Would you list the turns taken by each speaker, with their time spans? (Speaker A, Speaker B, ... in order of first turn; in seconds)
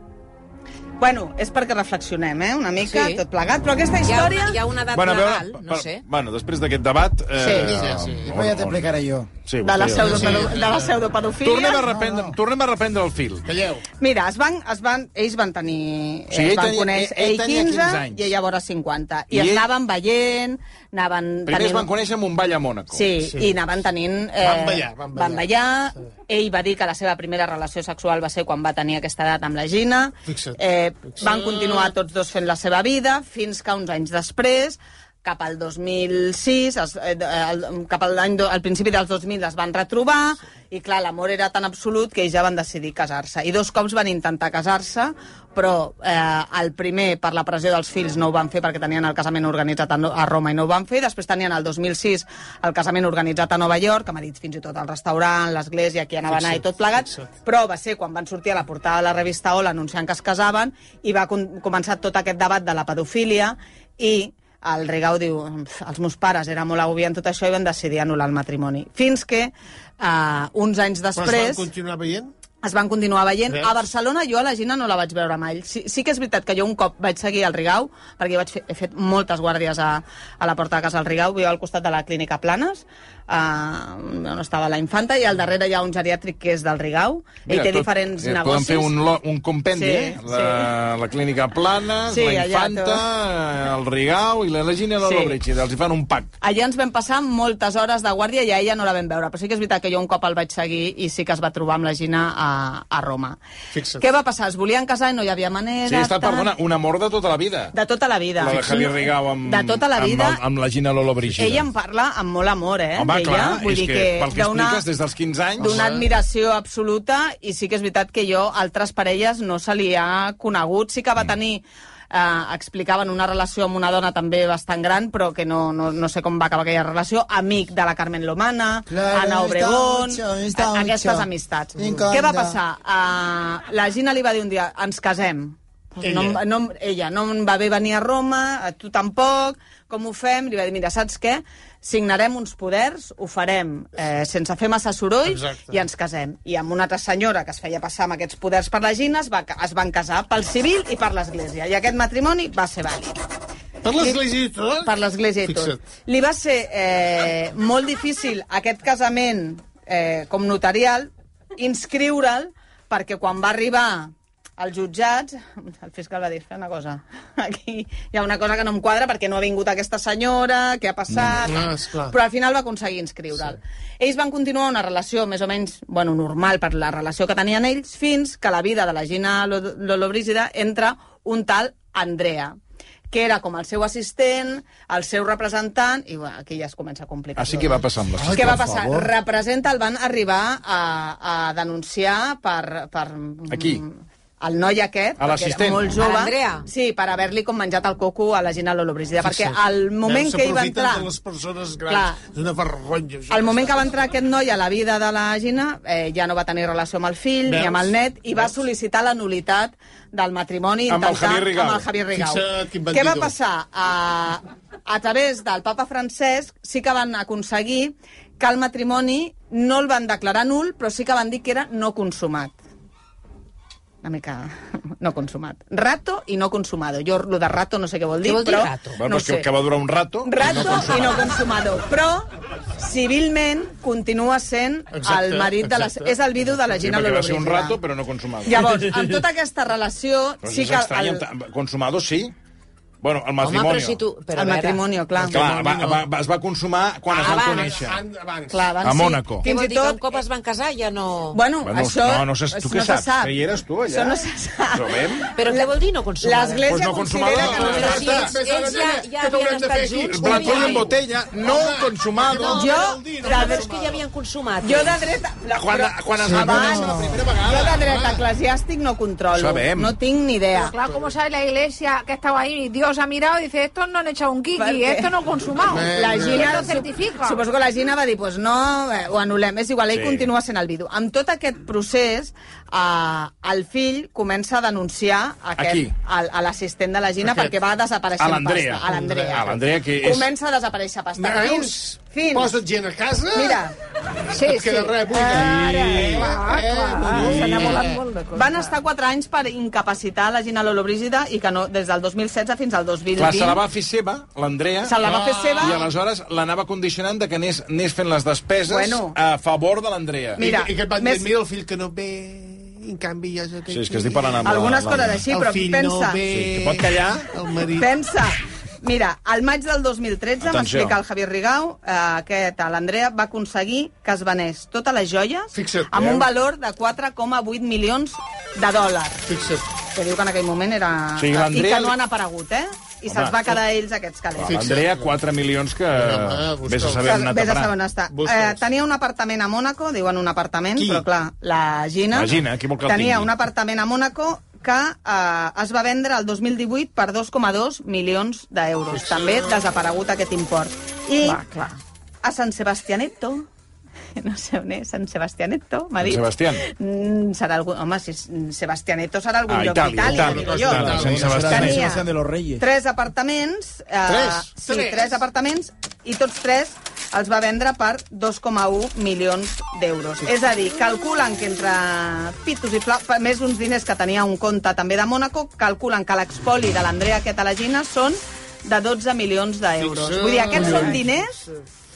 Speaker A: 1.0-4.6, 7.4-7.8, 9.6-11.9, 14.0-21.9, 22.9-71.7, 72.6-89.0, 89.7-90.7, 92.1-93.0, 95.0-95.4, 96.4-103.4, 104.0-106.5, 107.7-110.4, 111.4-114.8, 115.6-153.2, 154.8-182.6, 183.1-201.1, 201.9-202.2, 203.3-222.6, 224.0-229.5, 230.2-237.8, 238.4-241.2, 244.3-245.4, 248.5-250.2, 251.3-255.7, 256.2-258.3, 262.6-263.7, 264.6-270.7, 274.6-275.1, 275.8-292.6, 293.3-293.8, 294.6-296.2, 297.1-303.6, 304.8-305.8, 308.7-309.2, 310.4-311.3, 314.4-316.2, 317.8-329.2, 329.9-334.7, 337.1-353.5, 354.2-362.1, 362.6-381.4
Speaker B: 2.8-3.2, 4.0-6.0, 196.0-196.7, 228.2-229.0, 243.4-244.8, 247.2-247.7, 249.4-251.4, 255.4-256.8, 257.4-260.9, 262.3-265.0
Speaker C: 4.9-8.9, 9.5-10.6, 11.4-13.5, 16.3-18.3, 19.3-19.7, 21.5-23.1, 87.5-96.3, 105.9-107.7, 108.4-111.7, 113.0-115.9, 187.4-188.7, 193.5-193.8, 195.2-196.0, 210.9-211.9, 229.0-231.3, 236.8-238.6, 240.4-242.3, 243.0-244.0, 245.3-248.0, 248.8-249.5, 251.6-254.2, 254.7-255.3, 256.7-258.3, 260.1-262.6, 265.6-268.2, 269.3-270.0, 279.9-280.3, 285.6-285.9, 288.2-290.3, 303.2-305.0, 305.6-310.4, 313.7-315.2, 316.3-317.3, 320.4-321.0, 331.2-332.0, 333.1-333.4, 334.4-337.7, 342.1-343.3, 356.0-356.6, 359.5-361.9
Speaker D: 7.5-8.3, 10.0-11.0, 13.4-13.8, 23.2-23.6, 24.4-25.5, 30.3-31.9, 56.3-57.3, 71.2-72.3, 73.5-73.8, 103.7-104.1, 115.7-116.0, 131.8-132.1, 136.0-136.4, 145.2-145.8, 153.8-155.8, 171.2-172.2, 199.2-203.9, 207.5-208.5, 212.1-213.3, 234.9-236.2, 245.2-246.1, 247.1-248.8, 257.4-264.0, 266.3-267.0, 275.6-276.8, 287.2-287.6, 288.9-289.6, 291.1-293.6, 294.3-298.0, 305.0-305.9, 310.4-314.7, 315.3-317.9, 325.5-326.3, 329.3-329.7, 334.4-335.1, 335.9-337.2, 338.1-338.6, 340.8-341.1, 348.9-349.7, 359.9-361.7, 364.1-365.2, 379.8-381.4
Speaker E: 8.3-9.3, 11.9-12.4, 128.9-132.6, 188.2-189.1, 266.3-267.2, 360.8-362.6
Speaker F: 270.5-277.4, 294.4-298.8